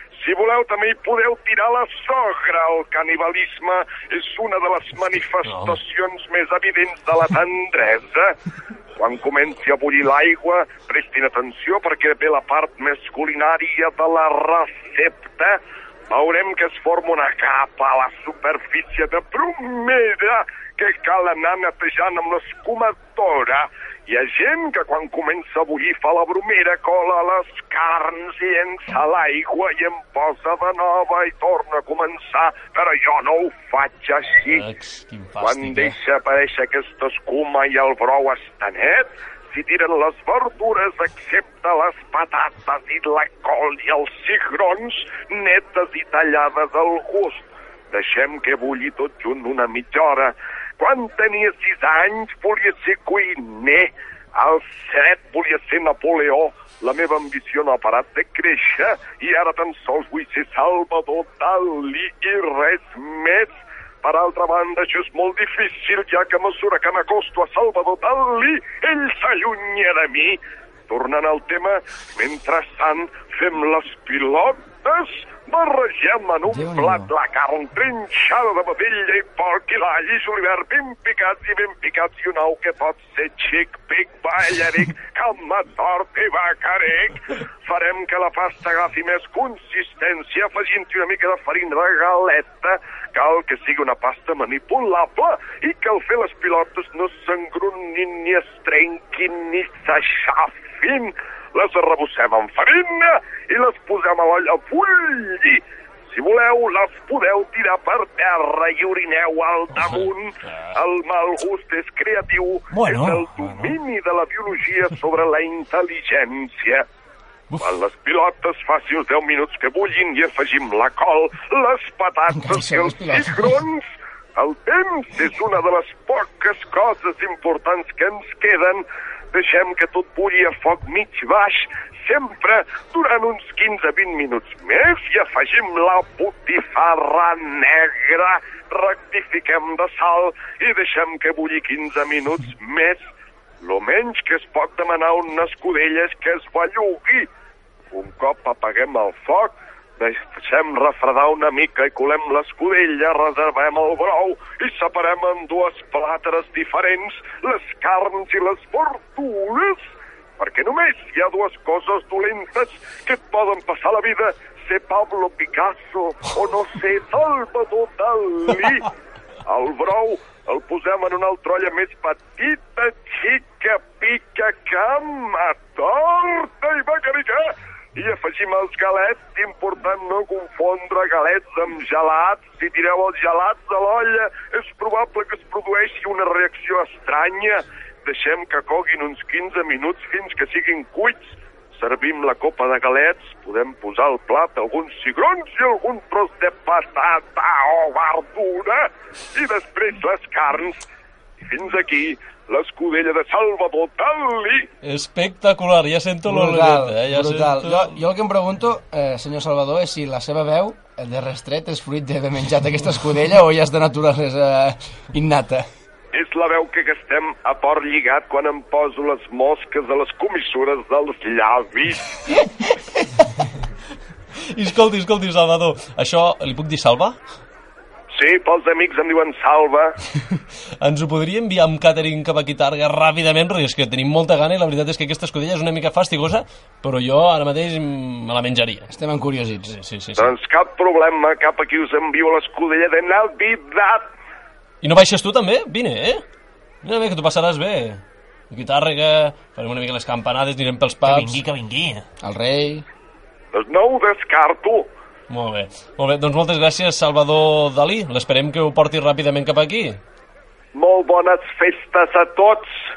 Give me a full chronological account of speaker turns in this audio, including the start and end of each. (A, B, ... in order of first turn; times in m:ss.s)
0:00.2-0:08.4 A
0:05.4-0:05.8 B
0:09.0-0:34.7 A
0:34.5-0:36.0 B
0:35.4-1:56.8 A
1:16.5-1:17.1 C
1:49.8-1:50.8 B
1:52.7-1:53.8 D
1:57.6-2:23.1 A
2:02.4-2:03.5 C
2:23.6-2:27.3 A
2:27.9-2:48.9 A
2:49.5-3:20.8 A
3:21.4-3:24.7 A
3:24.8-3:28.0 B
3:26.3-3:35.6 C
3:36.1-3:42.1 A
3:44.5-3:47.2 B
3:48.1-3:49.9 A
3:50.8-3:58.9 B
3:58.9-3:59.7 C
3:59.7-4:00.3 B
4:00.2-4:04.1 A
4:04.8-4:06.2 B
4:06.8-4:11.4 B
4:11.1-4:12.1 D
4:12.2-4:12.8 C
4:13.5-4:14.9 A
4:15.3-4:20.0 B
4:20.7-4:22.7 A